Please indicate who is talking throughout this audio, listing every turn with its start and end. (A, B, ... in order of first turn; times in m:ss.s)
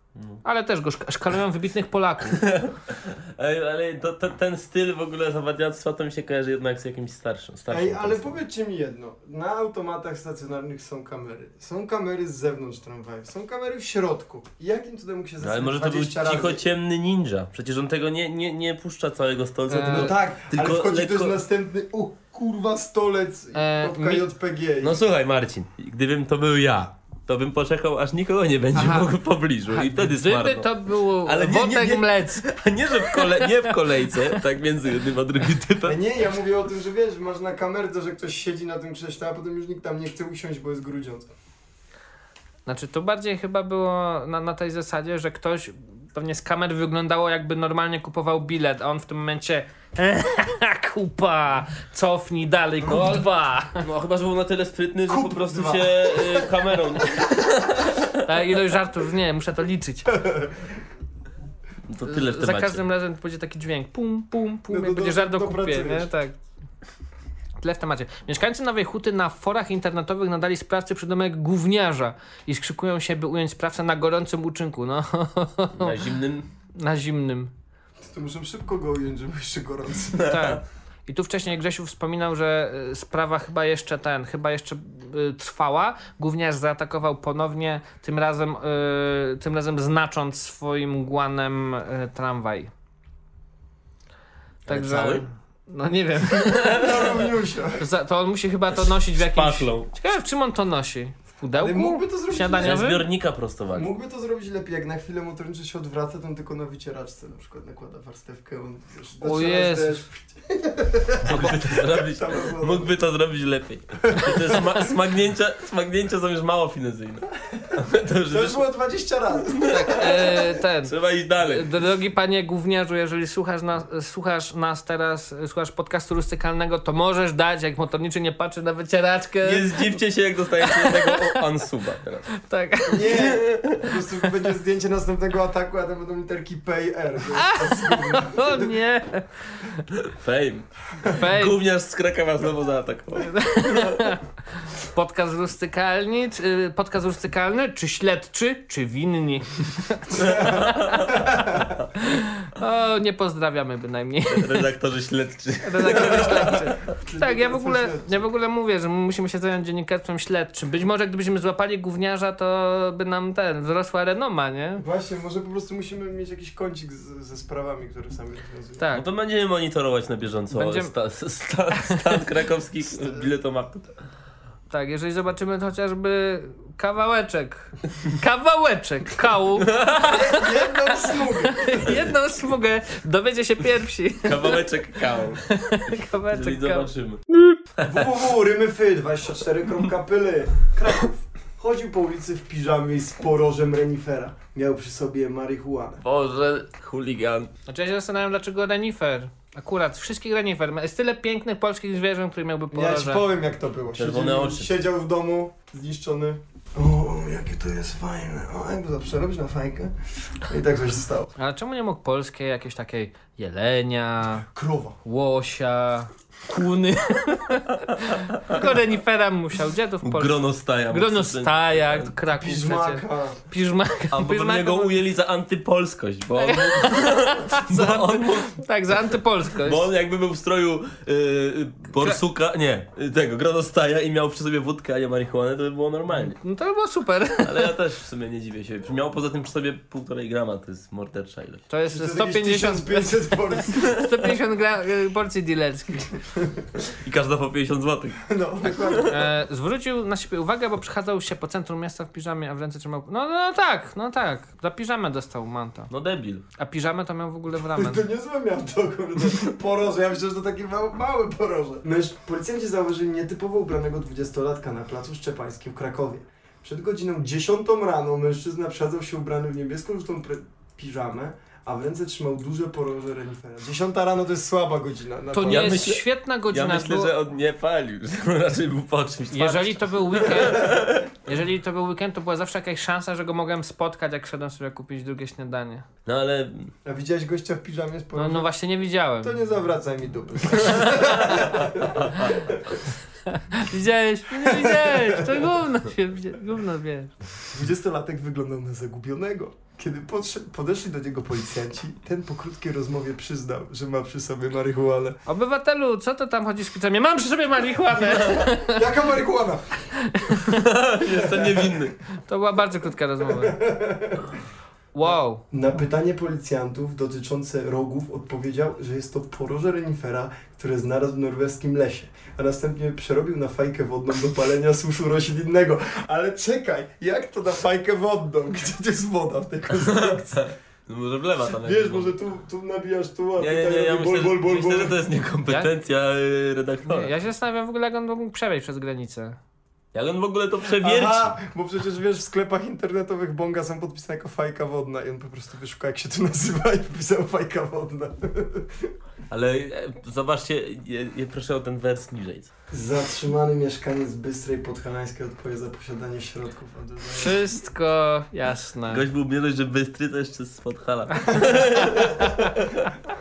0:00.2-0:00.4 A
0:00.4-0:02.4 B
0:02.4-0:08.4 A
0:07.7-0:16.6 C
0:15.4-0:21.4 A
0:19.7-0:20.1 B
0:19.8-0:25.0 C
0:23.5-0:24.3 B
0:24.8-0:30.7 A
0:28.7-0:29.1 B
0:29.7-0:32.4 B
0:31.2-0:36.0 A
0:33.0-0:34.3 B
0:35.8-0:41.3 C
0:42.6-0:53.8 B
0:53.8-0:58.2 A
0:55.1-0:56.5 C
0:58.2-1:00.2 B
1:01.9-1:02.8 A
1:02.0-1:06.3 B
1:04.7-1:06.1 C
1:07.6-1:16.0 B
1:15.8-1:16.4 A
1:16.7-1:17.5 B
1:18.0-1:20.3 C
1:20.2-1:20.6 A
1:20.2-1:32.7 B
1:34.7-1:35.2 A
1:34.7-1:37.0 B
1:36.6-1:37.8 C
1:37.8-1:43.0 B
1:39.2-1:39.9 A
1:41.6-1:43.0 C
1:42.6-1:43.9 A
1:43.7-1:52.9 C
1:49.2-1:50.0 B
1:51.2-1:58.6 A
1:54.1-1:54.6 C
1:58.3-2:00.3 C
1:59.6-2:01.7 A
1:59.7-2:10.0 B
2:09.4-2:12.3 A
2:10.6-2:11.4 B
2:12.4-2:13.3 B
2:12.9-2:18.8 C
2:13.0-2:13.8 A
2:17.3-2:19.8 B
2:19.9-2:24.0 A
2:21.1-2:21.6 B
2:23.2-2:31.1 B
2:30.1-2:31.7 C
2:30.1-2:31.2 A
2:32.0-2:34.7 B
2:34.3-2:36.7 A
2:35.6-2:44.8 B
2:35.9-2:38.2 C
2:44.8-2:48.8 C
2:48.8-2:49.0 B
2:48.9-2:53.9 A
2:50.5-2:50.9 B
2:51.8-2:52.2 B
2:54.7-3:04.7 B
2:59.6-3:00.0 A
3:00.0-3:02.0 C
3:04.2-3:05.4 A
3:05.4-3:06.9 B
3:06.3-3:07.2 A
3:07.8-3:16.0 C
3:16.0-3:17.5 A
3:17.7-3:23.2 B
3:22.7-3:31.3 C
3:24.0-3:24.7 A
3:31.4-3:34.4 B
3:34.5-3:35.0 C
3:35.0-3:45.0 B
3:38.3-3:38.6 A
3:40.0-3:42.1 A
3:42.3-3:43.4 C
3:44.1-3:48.6 A
3:46.4-3:49.8 B
3:49.6-3:56.4 A
3:56.1-3:57.7 B
3:57.4-4:01.6 A
4:01.7-4:06.1 B
4:01.9-4:03.9 C
4:07.0-4:09.1 A
4:08.2-4:09.2 C
4:09.1-4:15.9 B
4:15.9-4:16.4 A
4:16.6-4:18.0 B
4:17.6-4:35.8 C
4:35.3-4:37.1 B
4:35.4-4:41.0 A
4:39.3-4:45.8 B
4:40.2-4:40.8 C
4:46.0-4:46.7 A
4:46.8-4:48.5 C
4:48.1-4:49.4 B
4:49.2-4:52.8 C
4:50.9-4:51.4 A
4:52.0-4:52.2 A
4:53.3-4:57.1 B
4:54.3-4:55.5 C
4:57.5-5:05.2 C
5:05.2-5:08.8 B
5:07.9-5:09.6 C
5:10.0-5:10.6 B
5:10.5-5:11.9 A
5:11.1-5:11.8 C
5:12.3-5:13.6 B
5:13.2-5:14.4 C
5:14.9-5:15.4 B
5:15.0-5:30.4 C
5:29.8-5:32.2 A
5:31.5-5:35.0 C
5:33.4-5:37.1 A
5:36.9-5:39.4 B
5:39.9-5:41.4 A
5:40.8-5:48.9 C
5:49.3-5:52.5 A
5:52.7-5:57.4 C
5:57.1-5:59.0 B
5:58.9-6:02.9 A
6:01.5-6:02.2 C